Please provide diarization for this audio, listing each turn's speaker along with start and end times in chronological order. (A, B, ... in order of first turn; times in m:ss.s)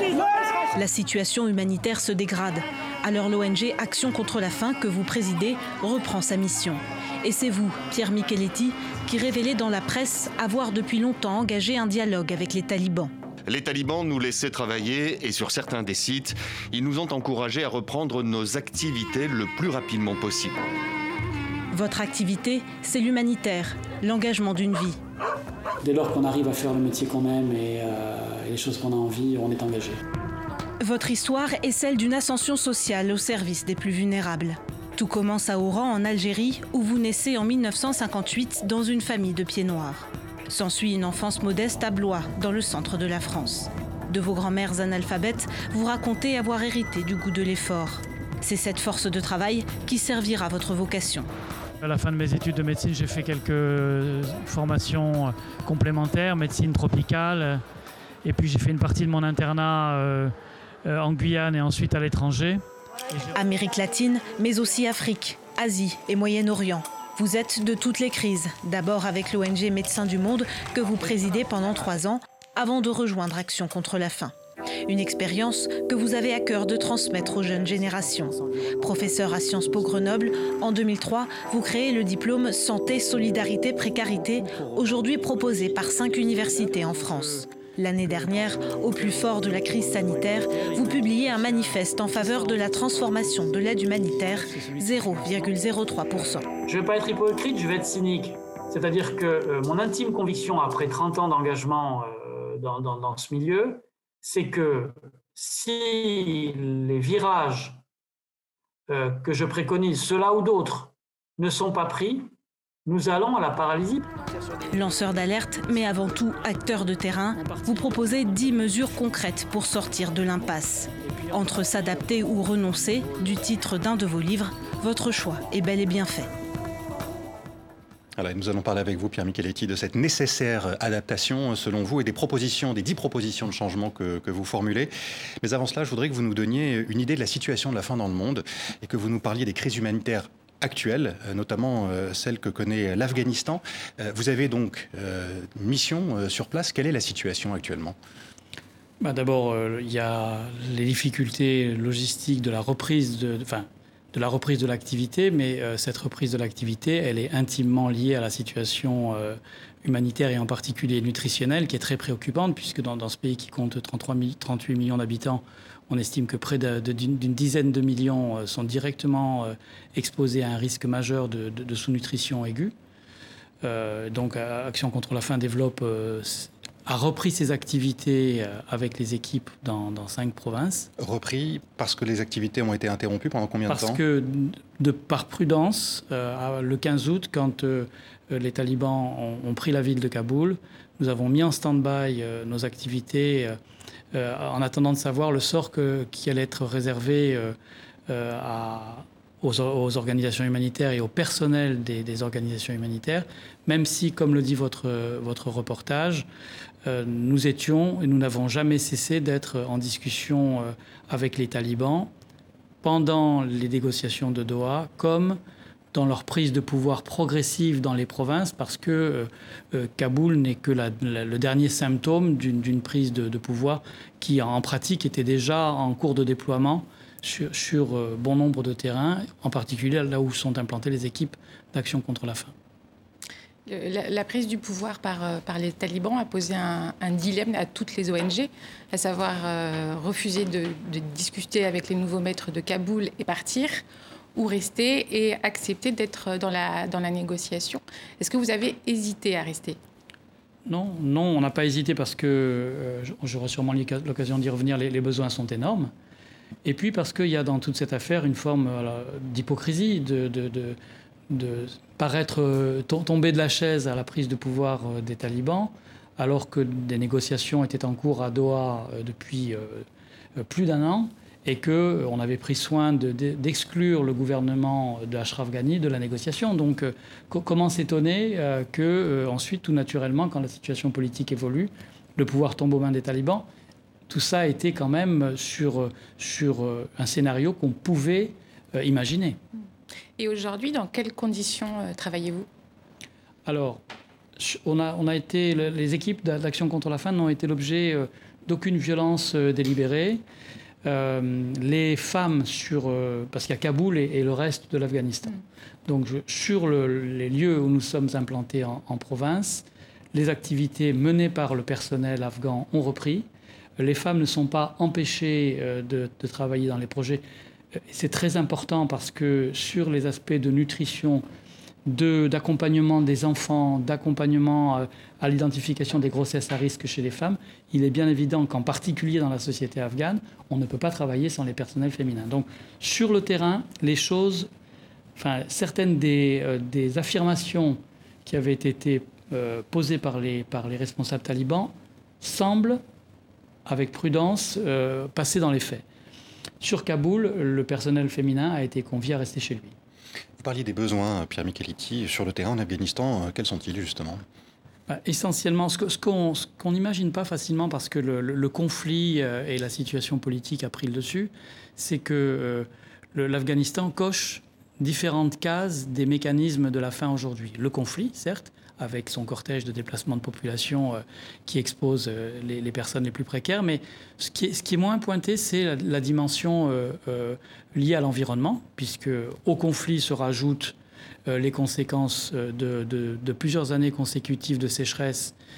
0:00.8-0:13.1 A
0:13.5-0:20.6 B
0:21.7-0:25.0 A
0:25.8-0:30.0 C
0:30.8-0:51.3 A
0:51.8-0:57.6 C
0:58.2-1:00.3 C
1:00.8-1:03.3 C
1:03.3-1:14.3 A
1:14.9-1:36.5 A
1:17.6-1:19.1 C
1:26.5-1:27.4 C
1:28.0-1:35.6 C
1:36.2-1:47.8 C
1:48.9-1:52.3 C
1:52.9-1:54.1 C
1:54.7-2:06.3 A
1:57.4-1:57.9 C
2:08.2-2:14.9 D
2:15.4-2:28.0 D
2:29.0-2:52.7 C
2:53.6-3:00.9 C
3:01.0-3:04.0 D
3:03.7-3:13.6 C
3:14.1-3:17.6 C
3:18.1-3:26.3 C
3:26.9-3:32.1 C
3:32.8-3:35.4 C
3:35.9-3:52.5 C
3:53.7-4:03.8 E
4:04.3-4:09.8 E
4:10.7-4:15.9 C
4:16.6-4:20.8 C
4:21.3-4:29.9 C
4:30.4-4:43.5 C
4:44.1-4:49.4 C
4:50.2-4:52.5 E
4:53.4-4:53.8 C
4:54.4-5:00.2 C
5:00.8-5:05.3 C
5:05.9-5:13.3 C
5:13.8-5:17.2 C
5:17.9-5:21.2 C
5:21.9-5:34.5 C
5:35.2-5:42.8 C
5:43.7-5:45.8 C
5:46.6-5:49.8 C
5:50.4-5:54.2 D
5:54.9-6:20.8 C
6:21.3-6:25.3 C